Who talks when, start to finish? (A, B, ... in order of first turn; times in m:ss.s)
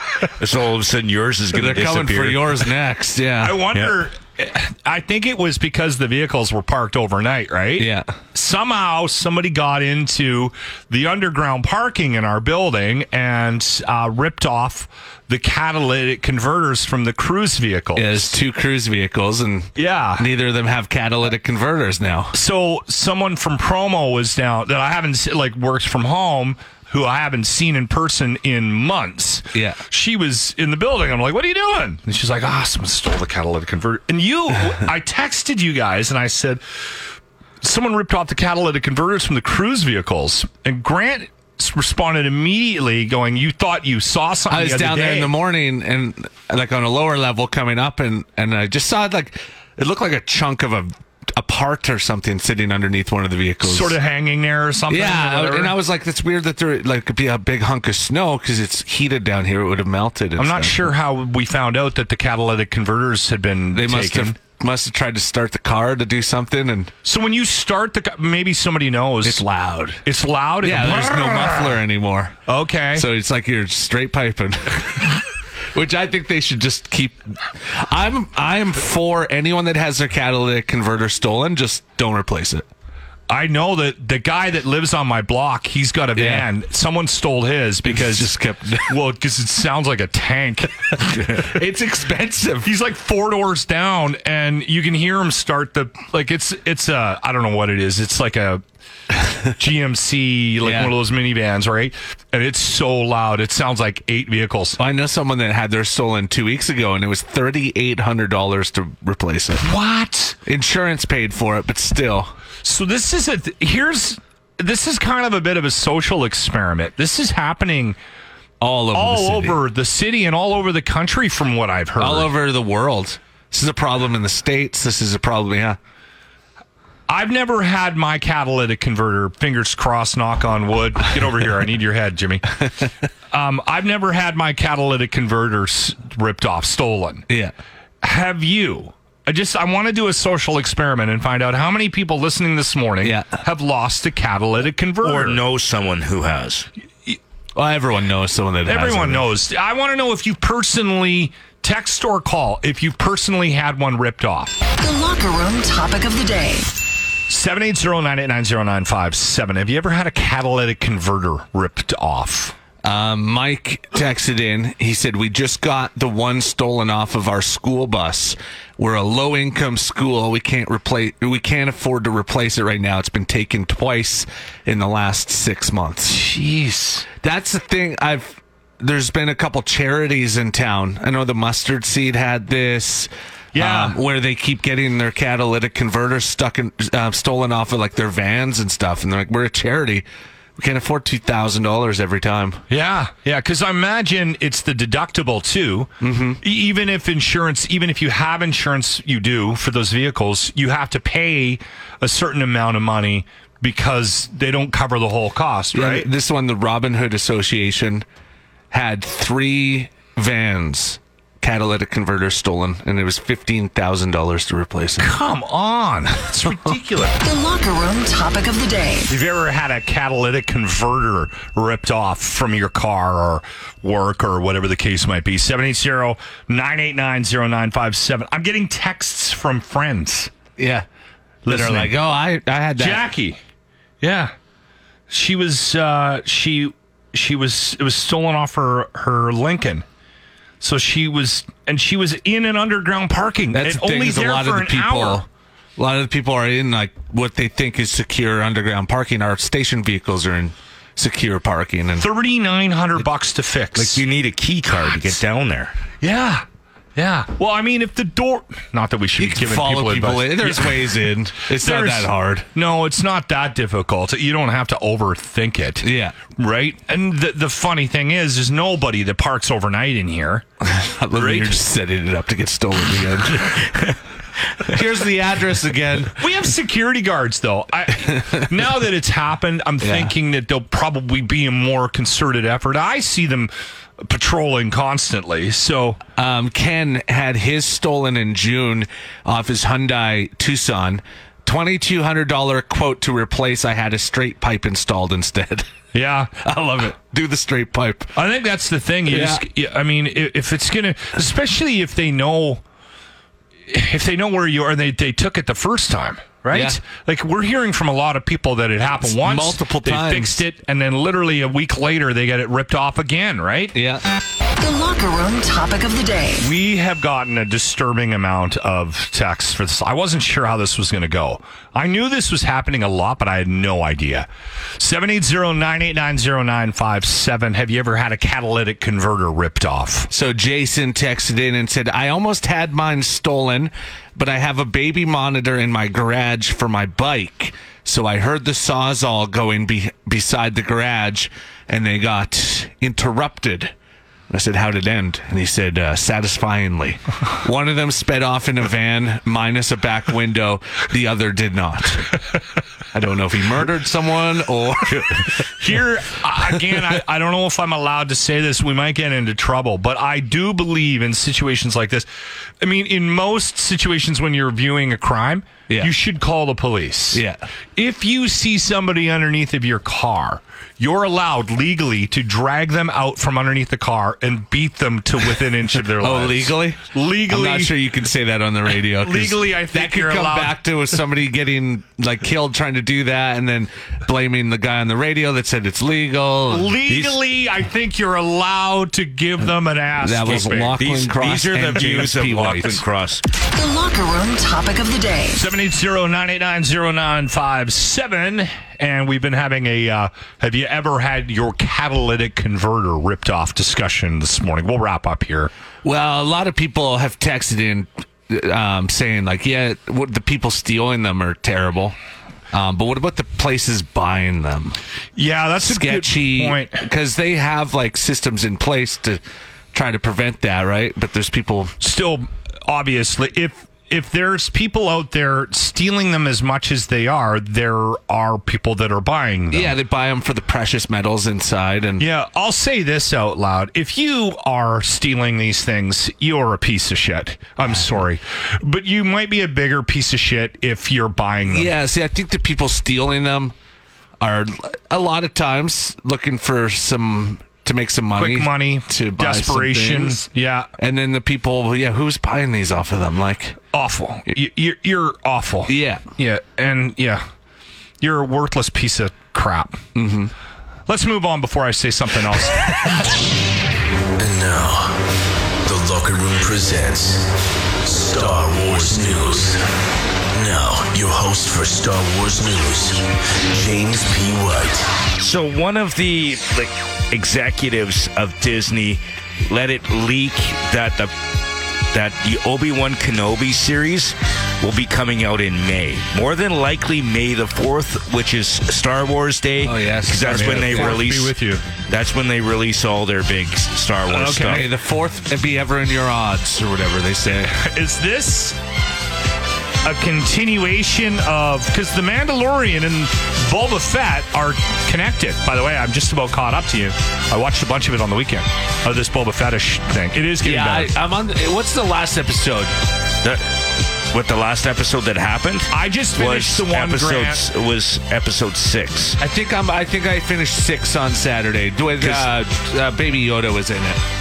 0:00.4-0:02.7 A
0:01.5-0:03.6 B
0:03.4-0:18.3 C
0:07.8-0:08.1 B
0:18.0-0:22.4 B
0:19.8-0:20.3 C
0:22.3-0:36.6 C
0:29.5-0:29.8 B
0:37.6-0:45.4 C
0:44.5-0:54.0 B
0:53.6-0:55.8 C
0:54.9-1:00.9 B
1:00.4-1:04.4 C
1:03.7-1:06.9 B
1:07.0-1:09.4 C
1:09.2-1:10.0 B
1:10.0-1:11.8 C
1:10.6-1:12.4 B
1:12.5-1:13.1 C
1:13.0-1:15.2 B
1:15.7-1:22.7 B
1:23.3-1:28.3 C
1:26.2-1:26.5 B
1:27.8-1:28.9 B
1:28.9-1:31.5 C
1:31.2-1:32.7 B
1:32.6-1:38.6 C
1:39.6-1:44.8 C
1:40.6-1:40.9 B
1:44.8-1:49.7 B
1:49.6-1:50.4 C
1:50.5-1:52.3 B
1:52.6-1:58.0 C
1:58.6-1:59.6 B
1:58.9-2:02.3 C
2:02.0-2:05.8 B
2:07.1-2:12.4 C
2:13.3-2:17.3 C
2:17.3-2:17.5 B
2:18.0-2:25.4 C
2:23.0-2:23.4 B
2:25.0-2:26.7 A
2:27.6-2:29.3 B
2:28.7-2:34.6 C
2:34.8-2:36.7 D
2:37.3-2:42.6 C
2:42.8-2:56.2 B
2:56.1-2:57.1 C
2:57.2-3:10.0 B
3:03.5-3:04.0 C
3:10.6-3:12.6 B
3:12.7-3:26.1 C
3:16.0-3:16.4 B
3:25.7-3:28.0 B
3:28.7-3:35.1 B
3:35.0-3:37.2 C
3:37.2-3:39.1 D
3:39.1-3:50.3 C
3:50.6-3:50.9 B
3:51.5-3:52.0 C
3:51.5-3:53.0 B
3:52.8-3:53.4 C
3:54.0-3:54.3 C
3:55.1-3:59.8 C
4:00.6-4:05.2 C
4:03.5-4:05.3 B
4:05.8-4:12.1 B
4:12.0-4:14.0 C
4:13.8-4:15.7 A
4:16.0-4:16.4 C
4:17.0-4:30.5 C
4:19.2-4:22.5 B
4:25.8-4:26.2 B
4:30.6-4:33.8 B
4:31.1-4:31.6 C
4:34.6-4:36.2 B
4:36.2-4:46.0 C
4:39.8-4:40.1 B
4:46.2-4:55.7 B
4:55.9-4:56.4 C
4:56.4-4:58.1 B
4:58.2-5:02.6 C
4:59.1-4:59.4 B
5:03.7-5:13.8 C
5:06.5-5:06.8 B
5:09.0-5:10.4 B
5:13.7-5:14.0 B
5:14.6-5:16.5 D
5:16.4-5:30.1 C
5:30.1-5:43.7 B
5:44.3-5:52.2 B
5:52.9-5:55.3 B
5:55.3-6:02.1 C
6:02.6-6:07.2 C
6:07.1-6:07.4 B
6:07.8-6:17.7 C
6:16.0-6:26.8 B
6:19.0-6:20.6 C
6:26.5-6:30.8 C
6:26.9-6:27.2 A
6:30.0-6:32.8 B
6:30.8-6:33.2 A
6:33.5-6:35.4 D
6:35.3-6:45.5 C
6:45.8-6:52.0 B
6:52.5-6:54.8 B
6:55.2-6:56.8 C
6:55.6-6:59.2 B
6:59.7-7:01.7 B
7:01.8-7:09.7 C
7:09.5-7:12.0 B
7:12.0-7:21.8 C
7:21.5-7:23.6 B
7:24.2-7:30.2 B
7:28.2-7:30.7 C
7:30.8-7:33.6 B
7:33.7-7:37.2 C
7:35.7-7:36.0 B
7:38.0-7:39.8 C
7:40.0-7:40.3 B
7:40.9-7:42.8 C
7:44.2-7:45.0 E
7:45.6-7:47.3 E
7:47.8-7:49.6 E
7:50.3-7:54.9 E
7:55.2-8:01.1 A
8:01.9-8:11.3 A
8:09.6-8:11.0 B
8:10.2-8:11.6 C
8:11.9-8:14.7 A
8:14.1-8:14.7 C
8:14.4-8:17.6 B
8:17.5-8:18.6 C
8:19.8-8:30.9 C
8:30.4-8:32.8 B
8:33.2-8:33.5 A
8:34.1-8:39.2 A
8:35.7-8:37.4 C
8:39.2-8:44.0 B